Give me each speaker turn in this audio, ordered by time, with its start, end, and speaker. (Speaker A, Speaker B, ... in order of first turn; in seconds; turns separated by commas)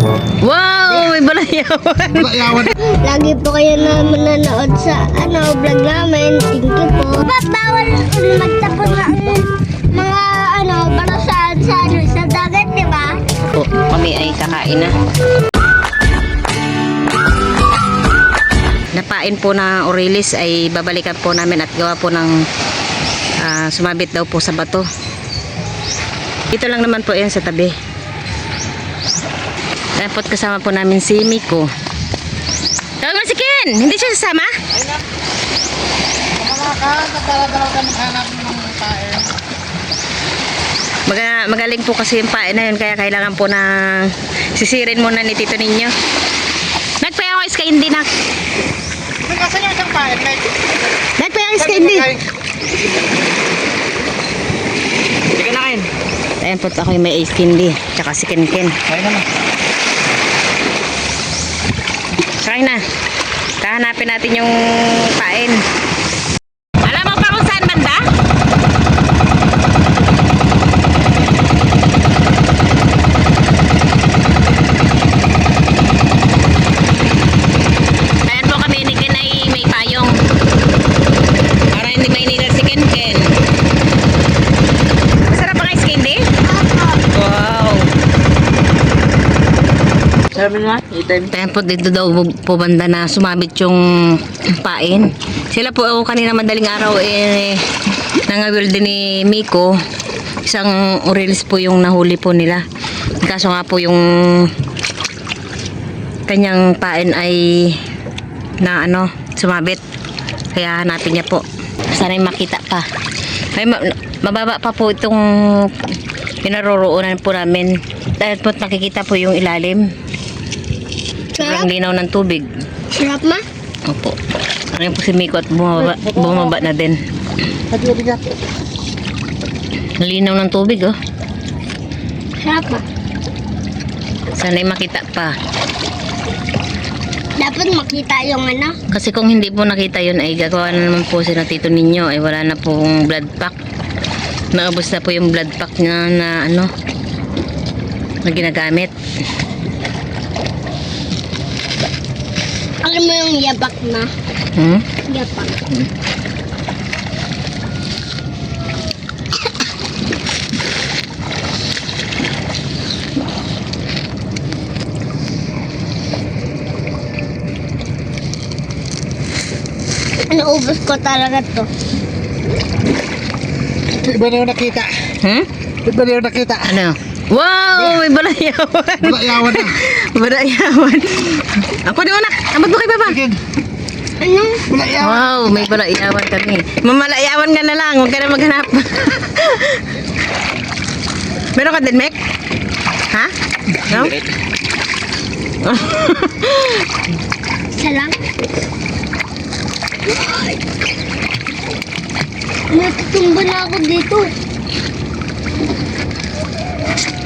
Speaker A: 0.4-2.6, Speaker B: 2.1-2.7, Speaker C: 3.0-13.2, Speaker A: 13.5-14.9, Speaker A: 18.9-22.4, Speaker A: 23.4-24.9, Speaker A: 26.5-27.7, Speaker A: 29.9-31.7, Speaker A: 33.0-34.5, Speaker B: 36.4-39.3, Speaker A: 41.1-45.9, Speaker A: 47.0-48.1, Speaker B: 49.2-50.5, Speaker A: 51.2-52.1, Speaker B: 51.6-52.2, Speaker B: 55.4-55.8, Speaker A: 56.4-58.8, Speaker B: 58.9-59.2, Speaker A: 62.4-62.8, Speaker A: 63.6-65.6, Speaker A: 66.8-68.0, Speaker A: 78.2-80.2, Speaker A: 81.7-83.4, Speaker A: 85.2-86.2, Speaker C: 86.5-87.0, Speaker A: 87.0-87.9, Speaker A: 90.5-97.6, Speaker A: 98.3-99.7, Speaker A: 100.4-102.6, Speaker A: 103.2-104.5, Speaker A: 106.3-107.8, Speaker A: 108.6-109.8, Speaker A: 110.5-112.9, Speaker A: 113.5-115.7, Speaker A: 116.4-119.8, Speaker C: 121.4-121.7, Speaker A: 121.4-122.5, Speaker C: 122.9-123.4, Speaker A: 123.9-124.2, Speaker A: 124.7-127.0, Speaker B: 125.8-126.5, Speaker B: 127.7-128.2, Speaker A: 130.0-130.9, Speaker C: 132.4-132.8, Speaker A: 134.3-135.3, Speaker C: 137.4-138.8, Speaker A: 138.9-143.5, Speaker A: 144.5-146.7, Speaker A: 148.2-148.9, Speaker C: 152.8-154.1, Speaker A: 154.5-154.9, Speaker C: 155.1-155.5, Speaker C: 170.3-171.7, Speaker B: 173.9-174.9, Speaker B: 175.8-176.8, Speaker A: 176.7-183.2, Speaker B: 179.0-179.8, Speaker B: 183.1-183.4, Speaker C: 184.2-184.6, Speaker B: 184.7-185.6, Speaker A: 185.0-189.8, Speaker A: 191.6-192.2, Speaker A: 193.8-194.2, Speaker A: 195.6-196.9, Speaker C: 197.7-198.2, Speaker C: 202.7-204.3